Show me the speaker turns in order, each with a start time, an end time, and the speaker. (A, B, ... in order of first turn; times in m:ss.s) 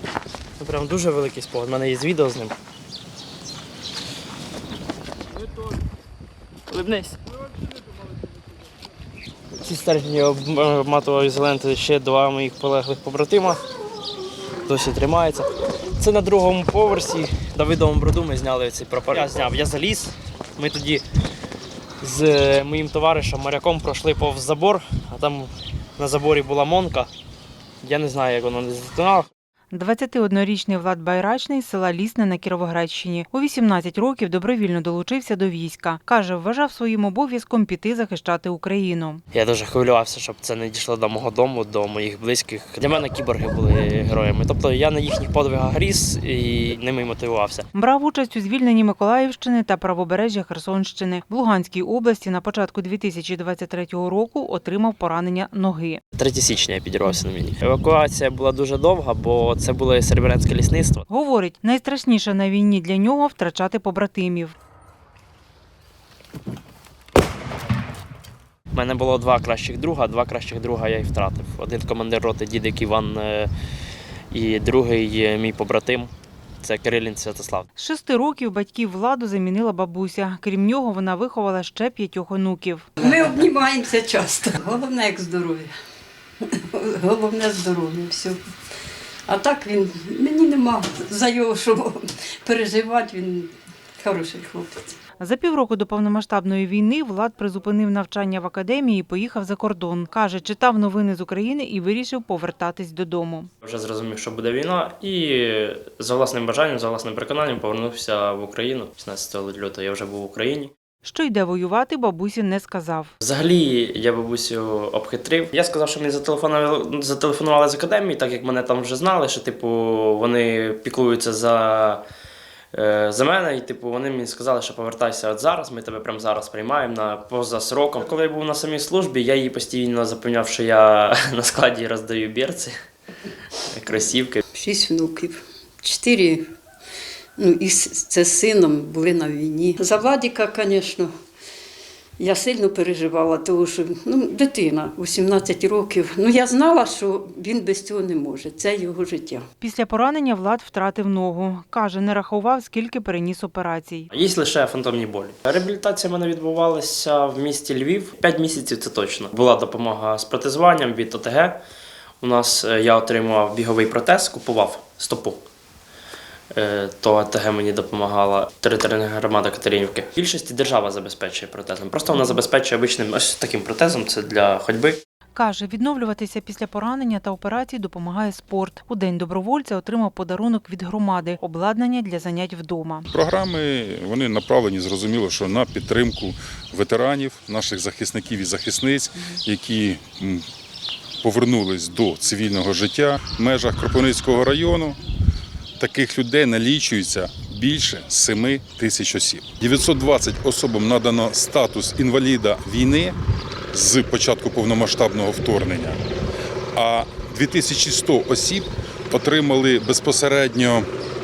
0:00.6-0:02.6 A
0:06.7-0:07.2 A
0:09.6-0:13.6 A
0:14.6-0:21.0 A
0:22.0-0:27.1 A
0:27.8-0:29.3 A
0:29.7-0:39.2 B
0:39.3-0:47.7 A
0:47.7-0:56.0 B
0:56.2-1:01.1 A
1:01.1-1:04.6 B
1:08.7-1:13.5 A
1:14.3-1:17.7 A
1:17.8-1:22.9 B
1:23.0-1:25.7 C
1:26.4-1:28.4 C
1:29.3-1:35.0 C
1:35.2-1:43.5 B
1:43.6-1:50.7 A
1:51.0-1:53.1 B
1:53.2-2:02.0 A
2:02.7-2:12.7 A
2:13.7-2:14.4 A
2:14.5-2:16.4 C
2:17.4-2:21.1 C
2:22.2-2:29.5 C
2:29.6-2:34.1 B
2:34.1-2:41.6 A
2:42.2-2:45.4 A
2:46.5-2:55.0 A
2:55.4-3:03.1 B
3:03.1-3:10.4 D
3:11.2-3:15.0 D
3:15.8-3:23.2 D
3:23.7-3:26.0 D
3:26.8-3:30.9 D